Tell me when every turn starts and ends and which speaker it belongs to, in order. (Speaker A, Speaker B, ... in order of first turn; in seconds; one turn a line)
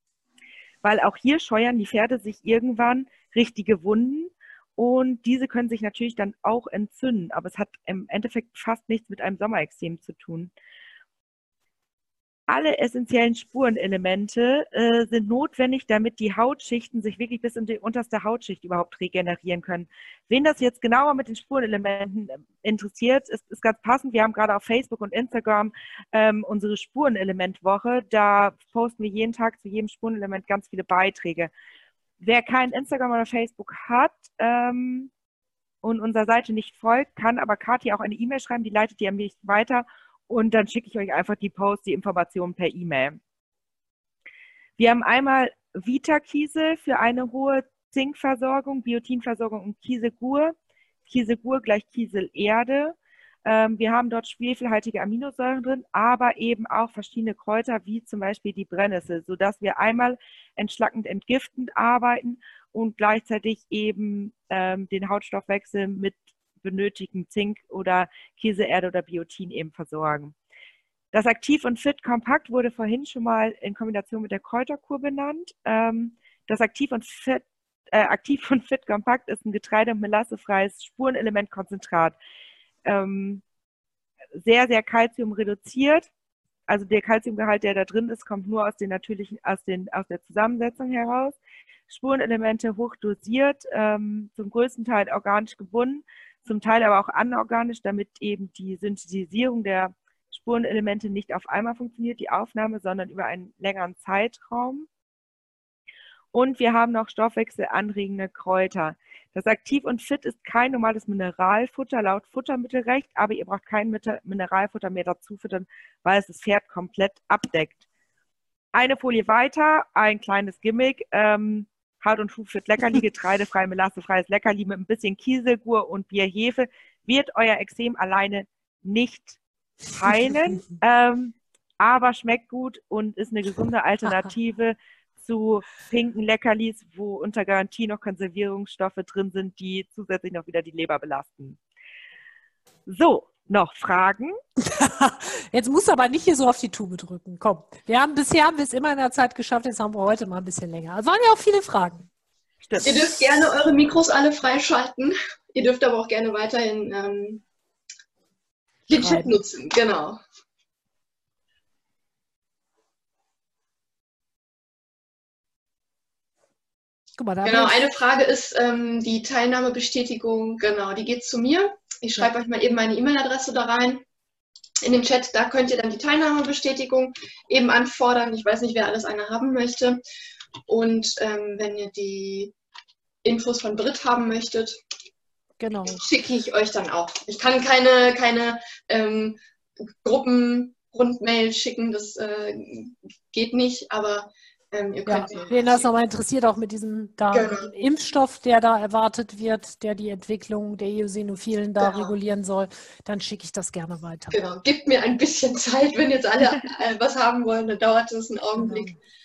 Speaker A: 0.8-10.5
Speaker A: 12.5-31.5
Speaker A: 32.2-35.1
Speaker A: 35.8-43.2
Speaker A: 44.8-50.5
Speaker A: 51.1-70.3
Speaker A: 71.1-82.2
Speaker A: 82.8-83.4
Speaker A: 84.3-86.1
Speaker A: 86.7-91.4
Speaker A: 91.9-104.9
Speaker A: 106.3-117.8
Speaker A: 118.7-129.4
Speaker A: 129.9-141.6
Speaker A: 142.9-144.3
Speaker B: 144.6-152.1
Speaker A: 152.6-153.1
Speaker C: 152.8-157.4
Speaker B: 158.9-159.3
Speaker C: 158.9-160.2
Speaker B: 167.2-167.9
Speaker C: 167.4-174.0
Speaker C: 174.8-180.0
Speaker C: 180.7-182.5
Speaker C: 183.2-184.8
Speaker B: 185.6-186.1
Speaker C: 185.8-189.4
Speaker C: 190.0-195.9
Speaker B: 195.1-204.5
Speaker C: 197.3-197.7
Speaker C: 201.8-202.1
Speaker C: 204.3-209.0
Speaker B: 208.6-208.9